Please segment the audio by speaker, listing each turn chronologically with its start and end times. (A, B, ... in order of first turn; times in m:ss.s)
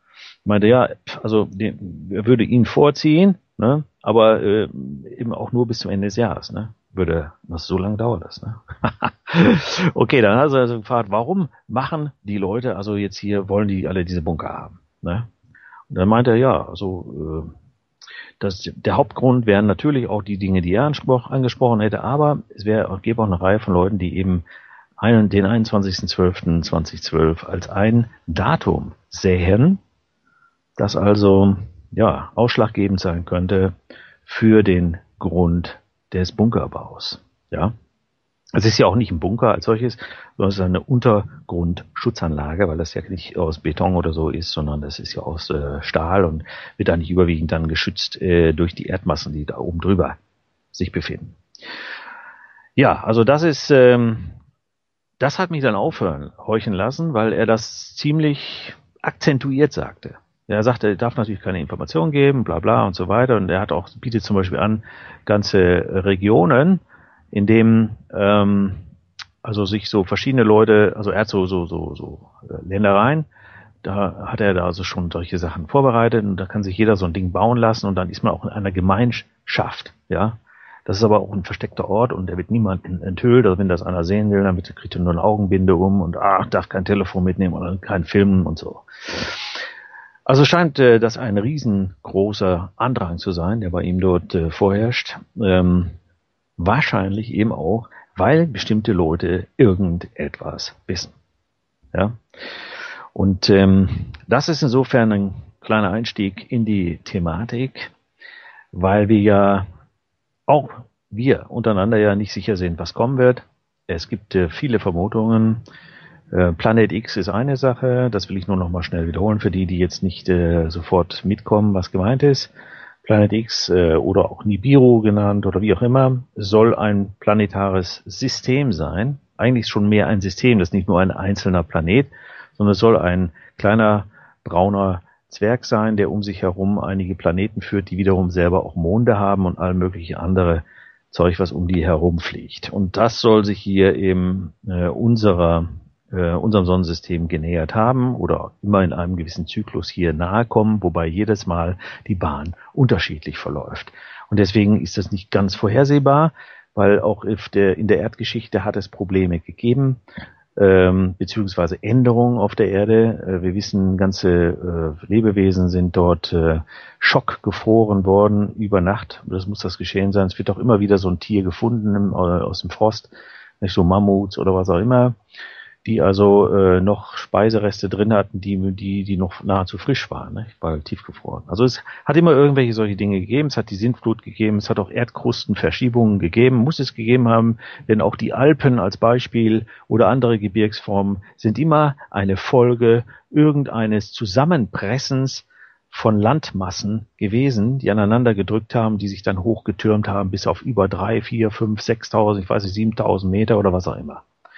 0:00.5-0:15.3 A
0:15.9-0:17.5 A
0:18.4-0:24.4 A
0:25.0-0:29.8 A
0:30.8-0:33.7 A
0:34.2-0:37.7 A
0:38.6-0:50.2 A
0:50.7-0:51.4 A
0:52.8-0:54.4 A
0:55.2-1:06.8 A
1:07.3-1:08.8 A
1:09.4-1:13.3 A
1:13.8-1:29.6 A
1:30.3-1:36.0 A
1:36.6-1:41.1 A
1:41.9-1:42.2 A
1:43.1-1:47.9 A
1:48.7-1:49.7 A
1:50.5-1:55.6 A
1:56.3-2:02.5 A
2:03.0-2:40.0 A
2:40.6-2:55.2 A
2:55.8-3:24.2 A